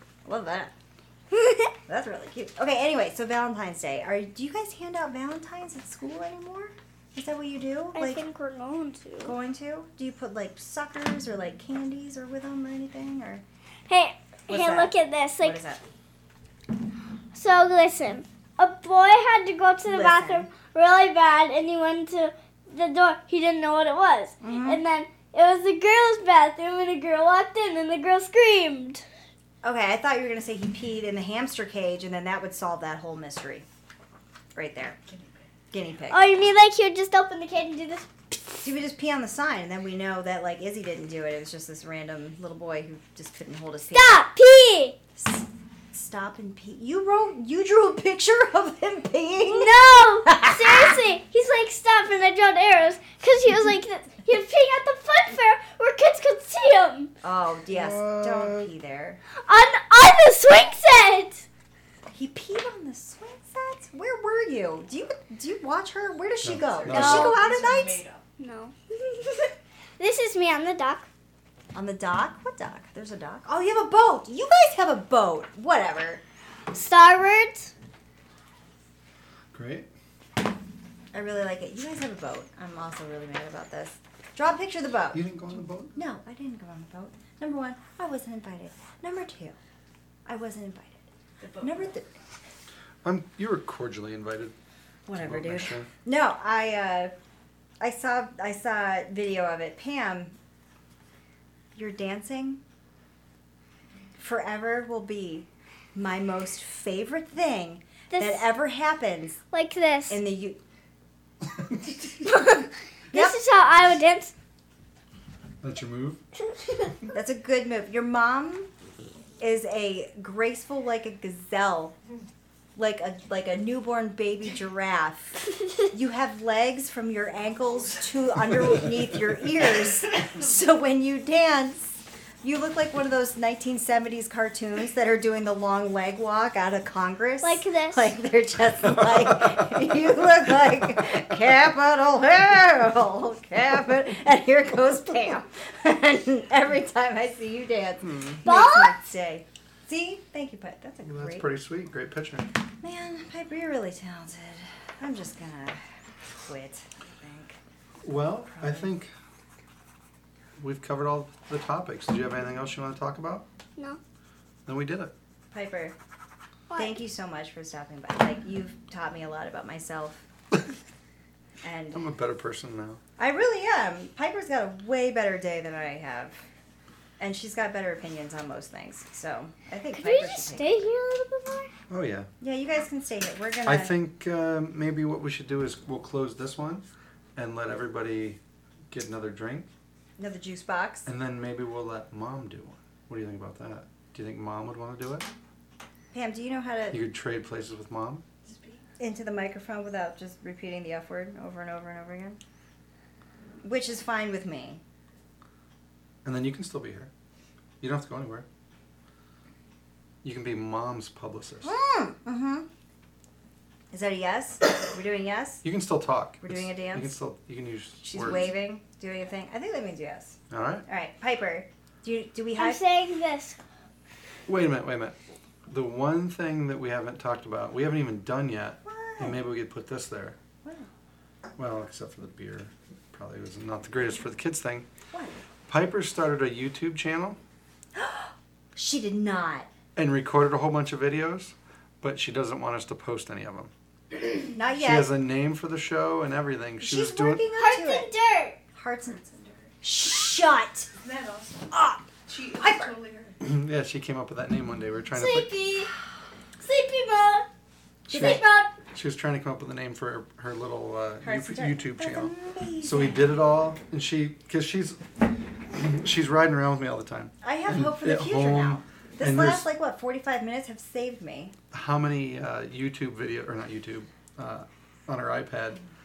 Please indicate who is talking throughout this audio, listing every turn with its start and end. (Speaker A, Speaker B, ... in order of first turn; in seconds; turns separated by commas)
Speaker A: 0.2-0.7, Speaker A: 1.8-8.2, Speaker B: 8.0-9.3, Speaker A: 9.2-13.4, Speaker B: 13.9-15.6, Speaker A: 14.5-15.8, Speaker B: 17.3-29.1, Speaker A: 19.9-20.5, Speaker A: 24.4-24.8, Speaker A: 29.6-33.7, Speaker A: 34.5-35.0, Speaker A: 35.7-36.2, Speaker B: 36.1-38.6, Speaker A: 38.6-44.2, Speaker B: 43.9-45.0, Speaker A: 45.2-51.0, Speaker B: 49.5-57.1, Speaker A: 57.2-59.2, Speaker C: 57.7-58.7, Speaker B: 59.3-61.5, Speaker A: 62.1-68.0, Speaker C: 66.4-67.4, Speaker D: 66.6-68.2, Speaker B: 66.9-67.4, Speaker B: 68.4-71.1, Speaker A: 71.7-76.2, Speaker B: 76.7-77.7, Speaker C: 79.5-79.9, Speaker A: 81.1-85.2, Speaker C: 85.1-86.0, Speaker A: 86.0-89.6, Speaker A: 90.3-91.1, Speaker D: 91.4-91.9, Speaker A: 91.6-92.1, Speaker C: 93.0-94.5, Speaker A: 95.1-97.1, Speaker C: 95.2-95.9, Speaker A: 97.8-100.4, Speaker A: 101.8-102.6, Speaker A: 104.2-109.4, Speaker B: 108.1-108.5, Speaker B: 109.5-110.2, Speaker A: 110.1-110.6, Speaker B: 112.2-114.3, Speaker A: 113.1-113.4, Speaker C: 115.6-116.2, Speaker A: 117.1-118.7, Speaker A: 119.4-122.0, Speaker A: 122.8-151.4, Speaker B: 137.4-138.1, Speaker C: 148.0-148.4, Speaker B: 148.4-149.0, Speaker C: 151.0-152.5, Speaker A: 152.8-155.8, Speaker A: 156.4-157.6, Speaker C: 158.0-159.1, Speaker A: 158.6-158.9, Speaker C: 160.6-163.4, Speaker C: 164.7-165.1, Speaker A: 165.5-166.0, Speaker B: 166.7-167.0, Speaker A: 166.8-170.2, Speaker A: 171.6-172.0, Speaker C: 171.9-173.0, Speaker A: 173.2-176.4, Speaker A: 177.2-180.7, Speaker B: 179.9-181.7, Speaker C: 181.9-182.3, Speaker A: 182.4-183.9, Speaker C: 183.7-188.4, Speaker C: 188.9-189.7, Speaker A: 190.2-191.1, Speaker C: 191.1-195.3, Speaker A: 196.1-197.0, Speaker C: 196.9-198.2, Speaker D: 198.4-198.8, Speaker A: 199.0-202.4, Speaker A: 203.6-204.8, Speaker C: 206.2-207.1, Speaker C: 207.8-208.5, Speaker C: 210.2-211.8, Speaker A: 211.6-212.7, Speaker A: 213.9-215.6, Speaker C: 215.6-218.5, Speaker A: 216.4-217.1, Speaker A: 218.0-222.8, Speaker C: 220.5-220.8, Speaker B: 222.6-223.6, Speaker C: 224.5-225.2, Speaker C: 225.7-230.4, Speaker A: 228.8-229.4, Speaker C: 231.6-234.9, Speaker C: 235.7-237.4, Speaker A: 237.9-239.7, Speaker C: 240.0-247.5, Speaker A: 244.5-245.1, Speaker A: 246.8-248.1, Speaker B: 247.6-248.6, Speaker A: 248.7-249.3, Speaker D: 249.2-249.7, Speaker A: 249.8-250.9, Speaker D: 251.0-253.4, Speaker A: 251.7-252.0, Speaker A: 252.6-253.0, Speaker C: 253.4-255.5, Speaker B: 255.1-255.9, Speaker B: 256.6-257.5, Speaker A: 258.1-258.6, Speaker C: 258.1-265.0, Speaker B: 258.1-258.7, Speaker A: 261.2-263.2, Speaker C: 265.7-269.7, Speaker A: 267.4-271.6, Speaker C: 271.7-275.8